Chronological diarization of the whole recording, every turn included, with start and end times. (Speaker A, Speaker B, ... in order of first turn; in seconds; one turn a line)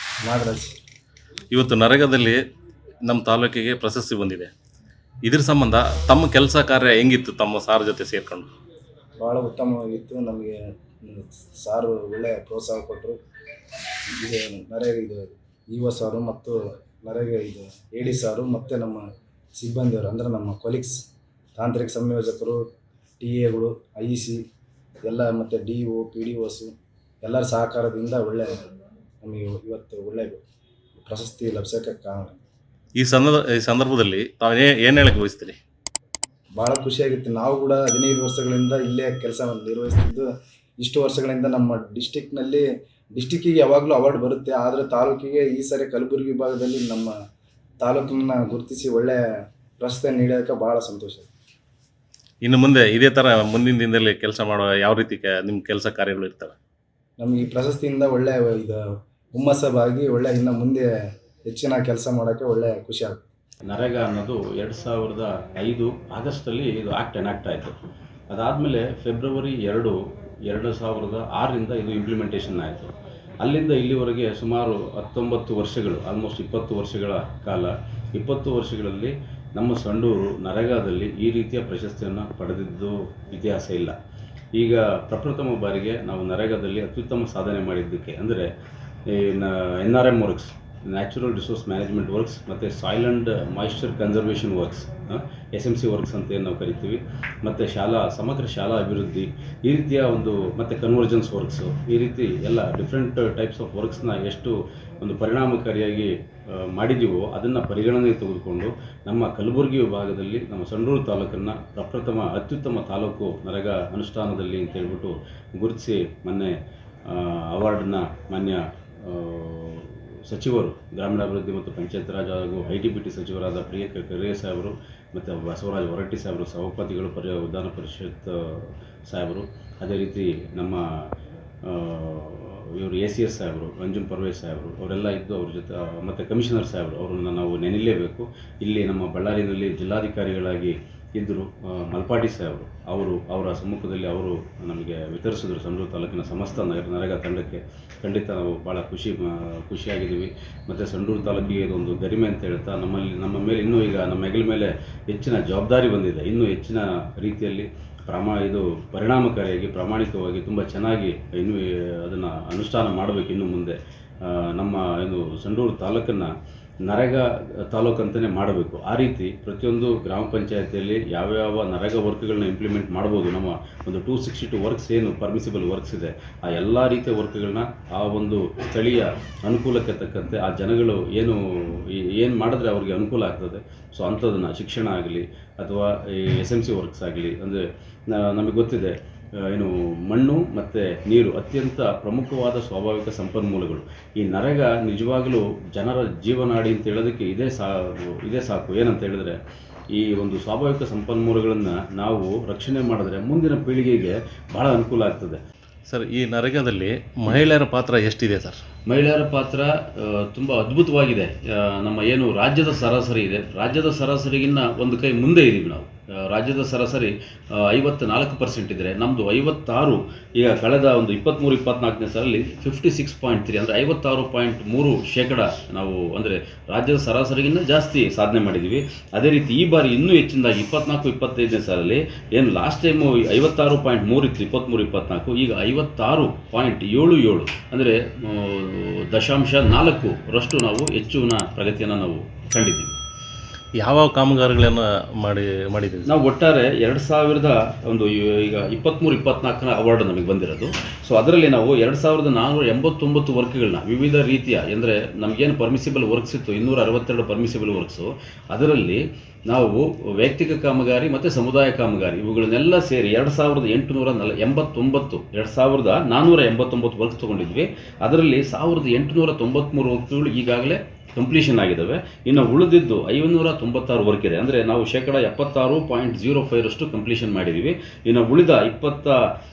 Speaker A: 0.2-0.7
Speaker B: 1.5-2.4
Speaker B: 3.0-4.5
Speaker B: 5.2-8.5
Speaker A: 9.2-10.5
Speaker A: 11.1-13.2
Speaker A: 14.1-19.0
Speaker A: 19.6-21.0
Speaker A: 21.6-22.6
Speaker A: 23.2-24.4
Speaker A: 25.1-26.7
Speaker A: 27.2-28.5
Speaker A: 29.2-30.4
Speaker A: 31.1-32.4
Speaker B: 33.0-35.6
Speaker A: 36.6-40.3
Speaker A: 40.8-42.6
Speaker A: 43.1-47.1
Speaker A: 47.8-49.2
Speaker A: 49.8-51.3
Speaker B: 52.4-56.5
Speaker A: 57.2-58.8
Speaker A: 59.3-60.9
Speaker A: 61.5-63.2
Speaker C: 63.7-67.7
Speaker C: 68.3-72.9
Speaker C: 73.4-83.9
Speaker C: 84.6-88.5
Speaker C: 89.1-116.5
Speaker C: 117.1-130.8
Speaker C: 131.6-166.3
Speaker C: 166.8-187.6
Speaker C: 188.1-188.9
Speaker C: 189.4-199.4
Speaker C: 199.9-205.4
Speaker B: 205.9-208.6
Speaker C: 208.9-242.9
Speaker B: 243.8-246.1
Speaker C: 246.1-279.2